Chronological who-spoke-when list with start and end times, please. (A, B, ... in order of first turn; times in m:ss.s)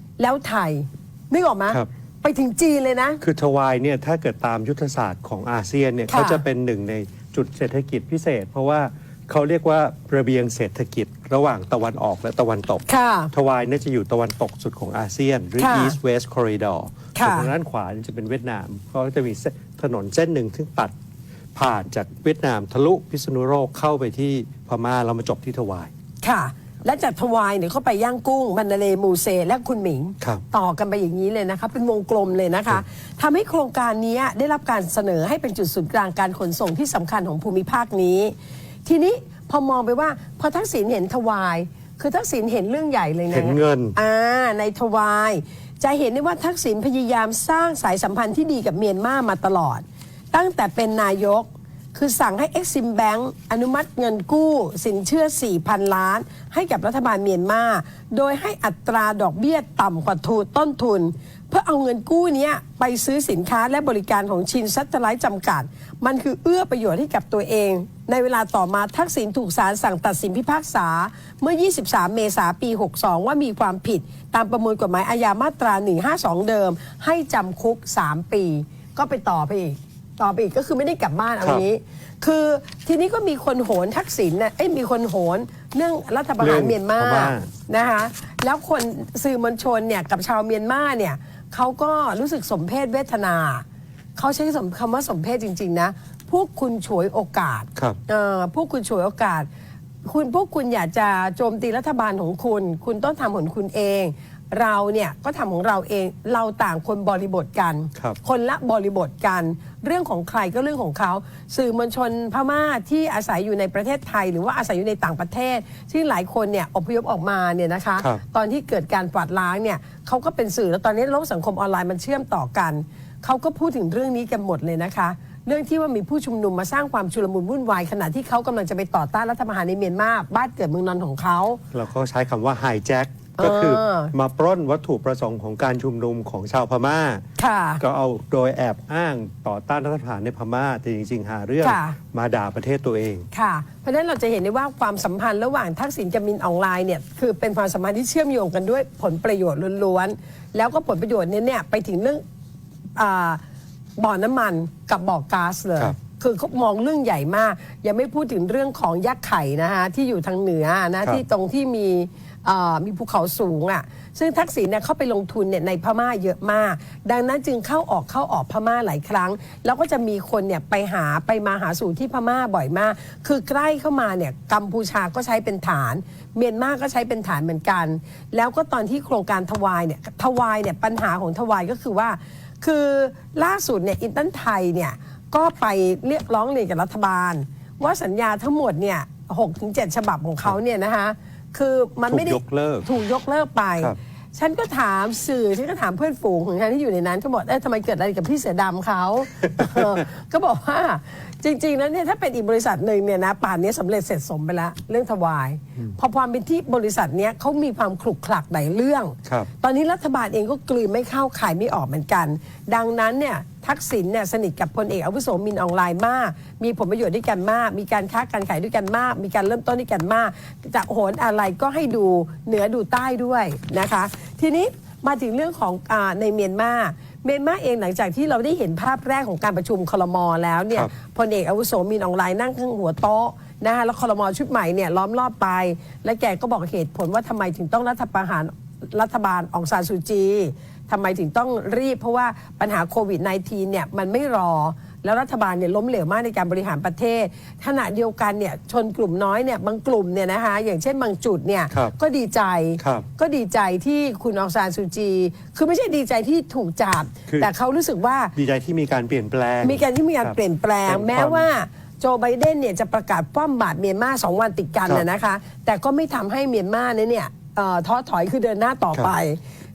0:00.2-0:03.2 A
0:03.2-0:20.9 B
0:06.1-0:06.4 A
0:12.9-0:13.3 A
0:15.6-0:16.0 A
0:17.2-0:17.5 A
0:21.6-0:25.9 B
0:26.2-0:38.3 A
0:38.8-1:33.6 A
0:43.3-0:44.0 B
1:26.4-1:27.5 B
1:34.2-1:39.5 A
1:40.0-2:11.6 A
2:11.7-2:17.2 B
2:13.4-2:14.1 A
2:17.4-2:17.8 A
2:17.8-2:23.3 B
2:21.6-2:22.0 A
2:23.3-2:32.2 A
2:33.0-2:33.4 A
2:34.0-4:18.3 A
3:12.1-3:12.9 B
3:19.6-3:20.0 B
4:12.8-4:13.1 B
4:18.4-4:21.5 B
4:19.6-4:29.4 A